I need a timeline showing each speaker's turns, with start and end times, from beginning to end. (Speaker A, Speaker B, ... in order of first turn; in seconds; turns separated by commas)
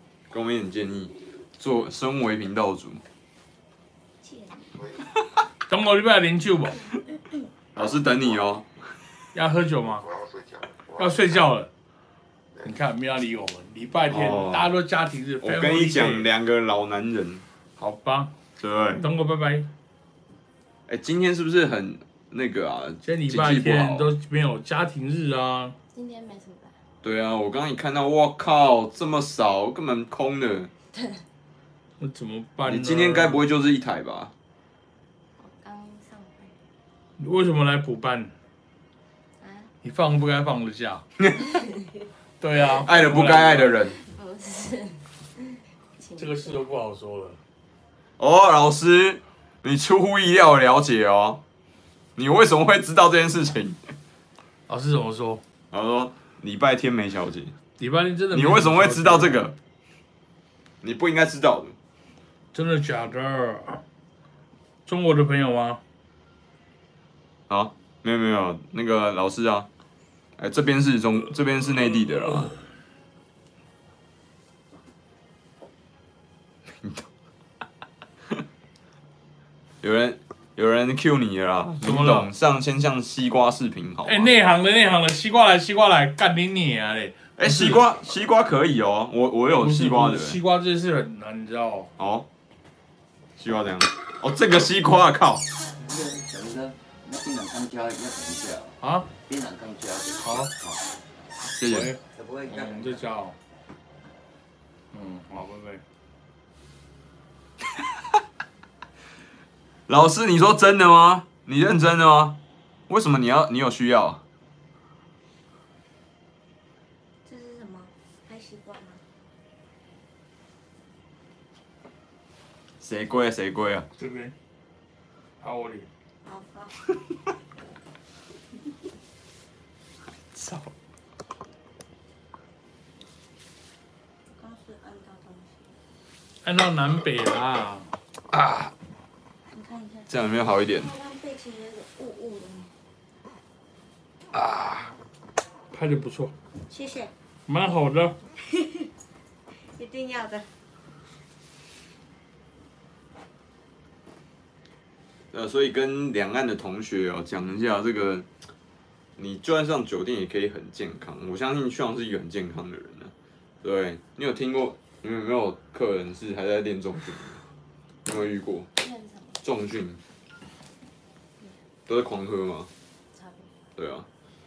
Speaker A: 0.3-3.0, Speaker B: 4.2-4.9, Speaker C: 5.7-6.8, Speaker A: 7.8-8.7, Speaker C: 9.3-10.1, Speaker C: 10.9-11.7, Speaker C: 12.6-16.3, Speaker A: 14.1-14.7, Speaker A: 15.4-17.4, Speaker C: 17.8-18.3, Speaker A: 18.6-19.0, Speaker C: 19.0-19.7, Speaker A: 20.9-24.1, Speaker C: 23.0-25.8, Speaker D: 25.9-26.8, Speaker A: 27.0-30.7, Speaker D: 30.9-31.2, Speaker C: 32.0-33.4, Speaker A: 32.6-34.3, Speaker D: 35.4-36.6, Speaker C: 37.2-38.3, Speaker D: 39.4-39.7, Speaker C: 39.8-41.0, Speaker C: 42.4-43.7, Speaker A: 42.8-44.0, Speaker D: 43.9-45.0, Speaker D: 46.0-46.6, Speaker C: 46.2-47.4, Speaker A: 48.2-51.4, Speaker A: 52.2-53.8, Speaker C: 54.7-55.4, Speaker A: 55.7-57.5, Speaker C: 57.8-59.5, Speaker A: 58.3-59.5, Speaker A: 60.8-61.8, Speaker C: 62.5-63.8, Speaker C: 64.9-65.8, Speaker A: 67.5-69.7, Speaker A: 70.4-72.5, Speaker A: 76.8-77.0, Speaker A: 79.8-84.3, Speaker C: 81.8-82.3, Speaker C: 84.0-87.8, Speaker A: 87.4-90.4, Speaker C: 89.6-91.9, Speaker A: 92.0-92.3, Speaker A: 93.4-95.5, Speaker E: 95.8-100.9, Speaker C: 98.8-99.1, Speaker C: 100.2-100.5, Speaker C: 101.5-103.3, Speaker A: 101.5-101.9, Speaker E: 102.1-103.0, Speaker C: 104.9-105.8, Speaker A: 109.9-112.4, Speaker A: 112.9-114.2, Speaker B: 117.2-119.0, Speaker A: 122.8-123.8, Speaker C: 124.0-124.3, Speaker C: 125.4-125.9, Speaker B: 126.2-126.8, Speaker A: 130.3-130.7, Speaker B: 134.3-135.6, Speaker C: 136.4-137.9, Speaker B: 139.5-140.1, Speaker A: 140.1-140.9, Speaker B: 140.7-142.7, Speaker C: 144.3-144.9, Speaker C: 145.7-146.3, Speaker B: 146.7-147.1, Speaker C: 147.5-148.2, Speaker B: 148.5-148.8, Speaker B: 149.8-150.5, Speaker A: 155.3-158.3, Speaker A: 159.2-167.4, Speaker A: 168.0-168.7, Speaker D: 168.8-169.4, Speaker A: 169.4-170.0, Speaker A: 171.9-172.7, Speaker D: 173.1-173.6, Speaker A: 173.8-174.1